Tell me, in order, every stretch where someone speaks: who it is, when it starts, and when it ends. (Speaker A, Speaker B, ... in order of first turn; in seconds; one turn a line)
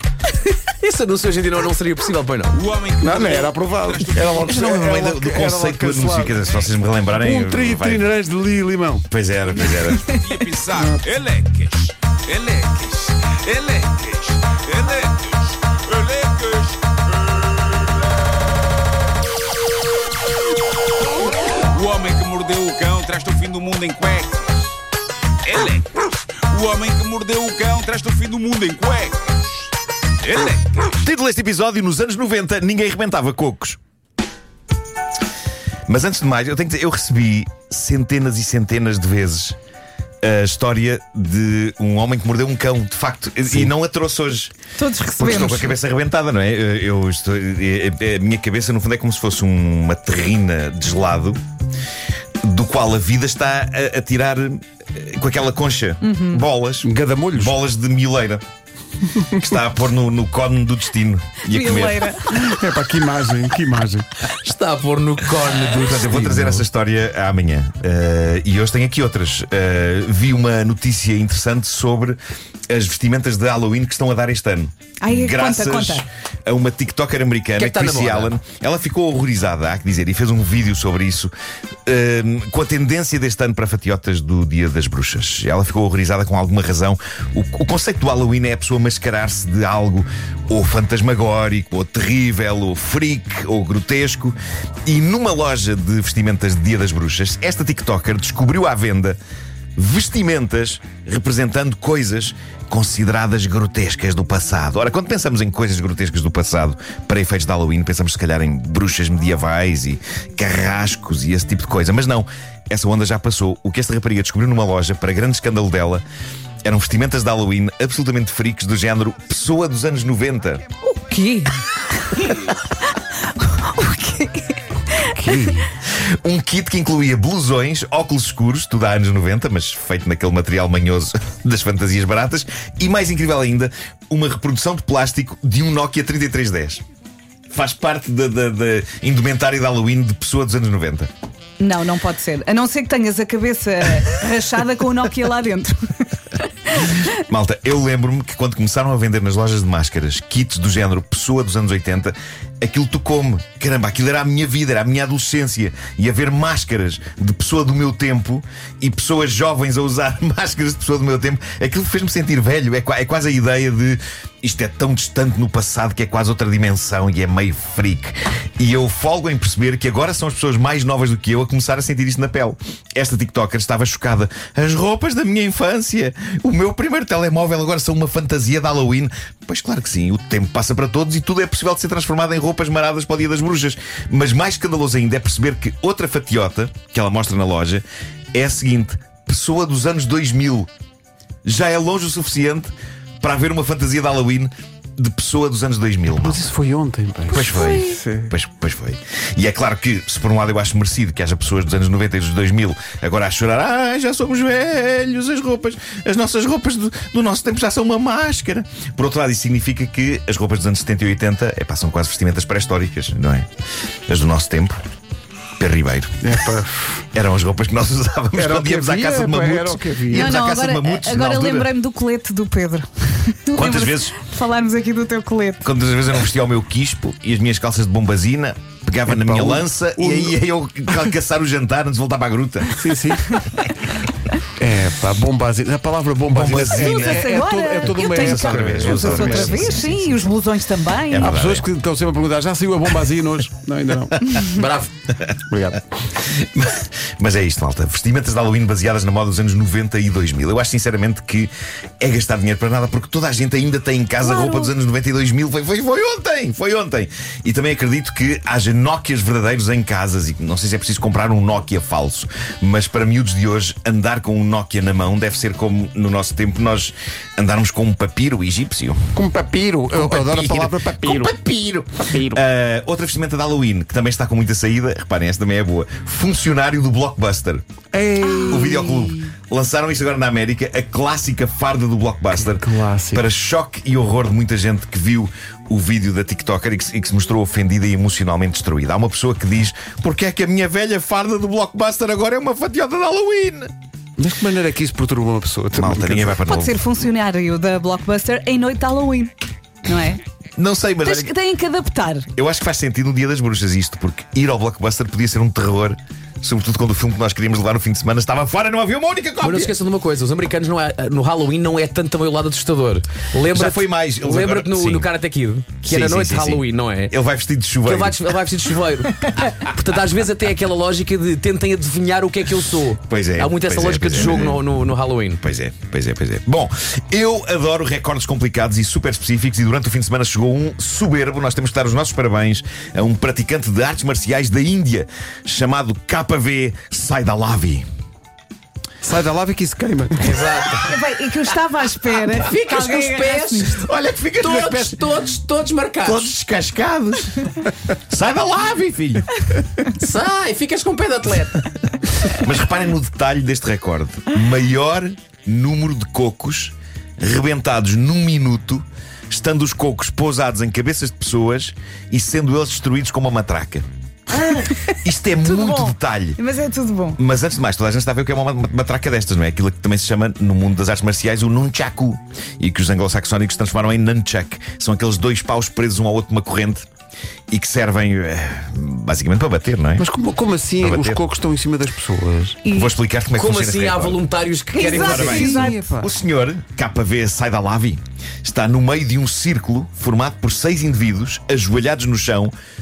Speaker A: 0.8-2.6
Speaker B: 2.6-4.4
Speaker C: 3.0-6.4
Speaker D: 4.4-8.0
Speaker C: 7.1-9.1
Speaker D: 9.1-10.2
Speaker E: 9.7-10.5
Speaker B: 10.4-16.9
Speaker C: 10.7-11.0
Speaker B: 21.7-24.7
Speaker B: 25.4-29.6
Speaker B: 30.2-30.9
Speaker D: 30.9-33.8
Speaker D: 35.9-39.5
Speaker D: 40.2-44.5
Speaker E: 44.8-45.7
Speaker D: 45.2-51.4
Speaker D: 52.4-58.4
Speaker E: 56.0-56.4
Speaker C: 56.8-57.5
Speaker D: 59.3-62.0
Speaker E: 61.5-62.5
Speaker C: 62.3-64.1
Speaker A: 64.3-66.0
Speaker D: 65.7-72.2
Speaker C: 65.7-66.6
Speaker D: 72.7-81.3
Speaker E: 75.0-76.0
Speaker A: 77.5-78.3
Speaker D: 81.8-99.2
Speaker D: 99.8-116.0
Speaker D: 116.6-120.6
Speaker E: 120.9-122.4
Speaker E: 123.4-125.4
Speaker C: 125.1-125.7
Speaker D: 126.2-136.8
Speaker D: 137.5-141.1
Speaker E: 141.6-145.9
Speaker D: 147.0-190.7
Speaker D: 191.4-196.4
Speaker C: 196.1-198.3
Speaker D: 197.3-213.5
Speaker D: 214.1-214.8
Speaker D: 215.6-216.3
Speaker C: 216.2-217.0
Speaker D: 217.1-221.7
Speaker C: 218.3-220.3
Speaker E: 220.1-225.6
Speaker D: 223.6-224.2
Speaker D: 225.6-232.8
Speaker C: 229.1-230.3
Speaker C: 232.7-233.3
Speaker C: 234.6-240.1
Speaker D: 236.3-240.1
Speaker E: 236.7-241.3
Speaker D: 241.1-241.7
Speaker C: 241.2-244.4
Speaker E: 244.3-244.6
Speaker A: 244.5-244.9
Speaker C: 245.5-245.8
Speaker D: 246.2-269.1
Speaker E: 254.2-254.7
Speaker C: 269.1-271.4
Speaker D: 269.9-277.6
Speaker C: 272.1-272.4
Speaker C: 277.9-279.2
Speaker E: 278.2-278.8
Speaker D: 278.5-293.7
Speaker C: 282.3-283.2
Speaker C: 294.2-296.4
Speaker D: 295.7-296.8
Speaker E: 296.4-300.2
Speaker D: 300.6-301.3
Speaker E: 301.0-302.3
Speaker D: 302.3-309.8
Speaker A: 309.4-317.1
Speaker D: 313.5-315.1
Speaker D: 315.8-318.4
Speaker A: 317.8-325.4
Speaker D: 323.1-324.6
Speaker D: 325.4-337.8
Speaker C: 339.0-340.4
Speaker A: 340.2-341.0
Speaker E: 340.8-343.8
Speaker A: 342.3-343.9
Speaker D: 343.8-344.9
Speaker A: 344.4-346.3
Speaker D: 346.0-349.3
Speaker A: 350.0-351.7
Speaker D: 352.3-363.8
Speaker D: 364.4-366.4
Speaker E: 365.4-367.2
Speaker D: 367.2-376.9
Speaker D: 377.5-380.1
Speaker C: 380.0-382.6
Speaker D: 380.8-381.2
Speaker E: 382.6-382.9
Speaker D: 382.7-384.2
Speaker A: 383.3-385.6
Speaker E: 384.7-385.8
Speaker D: 384.9-392.5
Speaker C: 385.0-386.1